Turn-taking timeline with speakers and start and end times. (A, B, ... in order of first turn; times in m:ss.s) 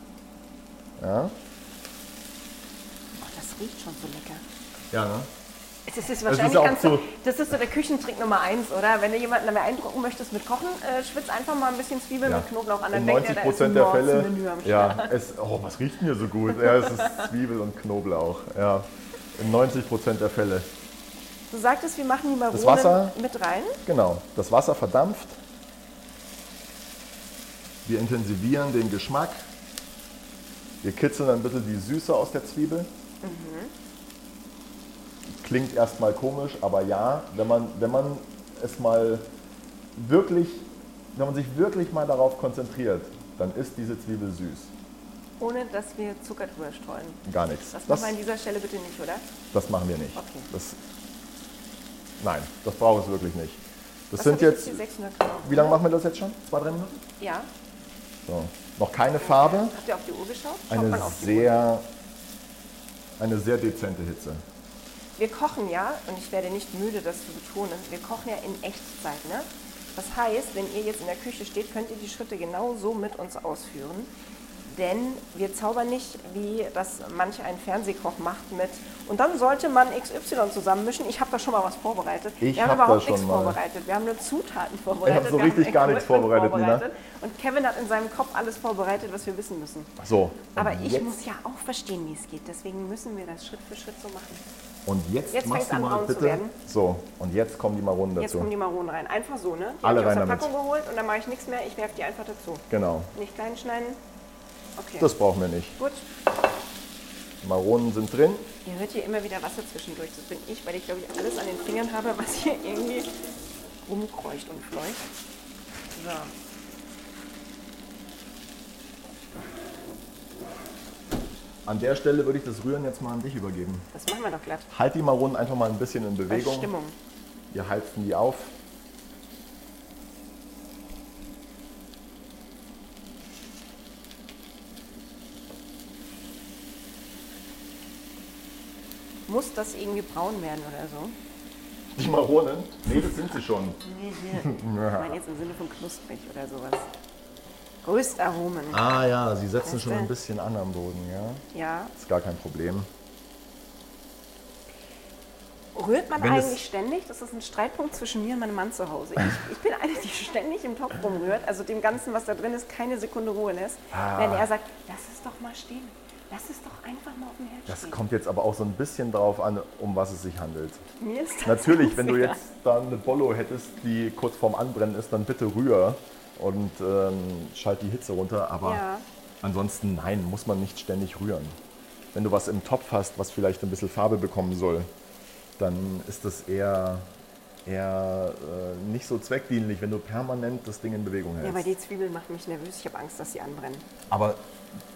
0:01.0-0:01.4 A
0:03.2-0:04.4 B
0:04.9-0:05.3 A
0:05.9-0:15.1 B
0:06.2-0:07.1 A
0:12.2-0:20.7 A
0:16.8-0:17.2 B
0:21.5-0:23.8 B
0:22.5-0:23.2 A
0:23.8-0:25.4 A
0:27.8-0:29.5 A
0:30.8-0:32.9 A
0:33.2-0:33.7 B
0:35.2-0:39.3 A
0:39.9-0:44.7 A
0:45.4-0:49.3 B
0:47.2-0:48.2 A
0:49.5-0:50.8 A
0:50.1-0:50.5 B
0:52.2-0:54.8 A
0:54.2-0:55.8 B
0:55.4-0:57.0 A
0:57.2-0:57.5 B
0:58.2-0:59.8 A
0:59.2-1:01.6 B
1:00.7-1:01.9 A
1:03.2-1:04.4 A
1:05.2-1:14.1 B
1:14.6-1:29.9 B
1:22.4-1:23.6 A
1:25.0-1:26.8 A
1:30.0-1:31.2 A
1:30.6-1:34.4 B
1:34.8-1:38.5 A
1:35.3-1:36.6 B
1:38.2-1:44.0 B
1:39.8-1:40.5 A
1:42.7-1:43.1 A
1:44.8-1:45.1 B
1:45.0-1:45.8 A
1:45.8-1:46.0 B
1:47.4-1:48.5 A
1:48.6-1:53.1 B
1:53.8-1:55.0 B
1:55.9-1:56.3 B
2:01.6-2:03.9 A
2:03.9-2:04.7 B
2:04.7-2:06.7 A
2:06.3-2:07.0 B
2:07.5-2:08.5 A
2:19.3-2:21.2 B
2:21.9-2:23.8 A
2:23.8-2:26.9 B
2:24.3-2:25.2 A
2:27.8-2:28.8 B
2:28.7-2:32.9 A
2:29.6-2:30.1 B
2:31.5-2:31.9 B
2:35.7-2:48.0 B
2:36.2-2:36.6 A
2:43.9-2:44.5 A
2:47.7-2:50.8 A
2:51.0-2:52.4 B
2:51.4-2:58.8 A
2:58.6-2:59.0 B
2:59.4-3:01.6 A
3:02.1-3:04.9 A
3:05.6-3:07.1 A
3:07.6-3:11.7 A
3:11.4-3:13.8 B
3:14.1-3:14.5 A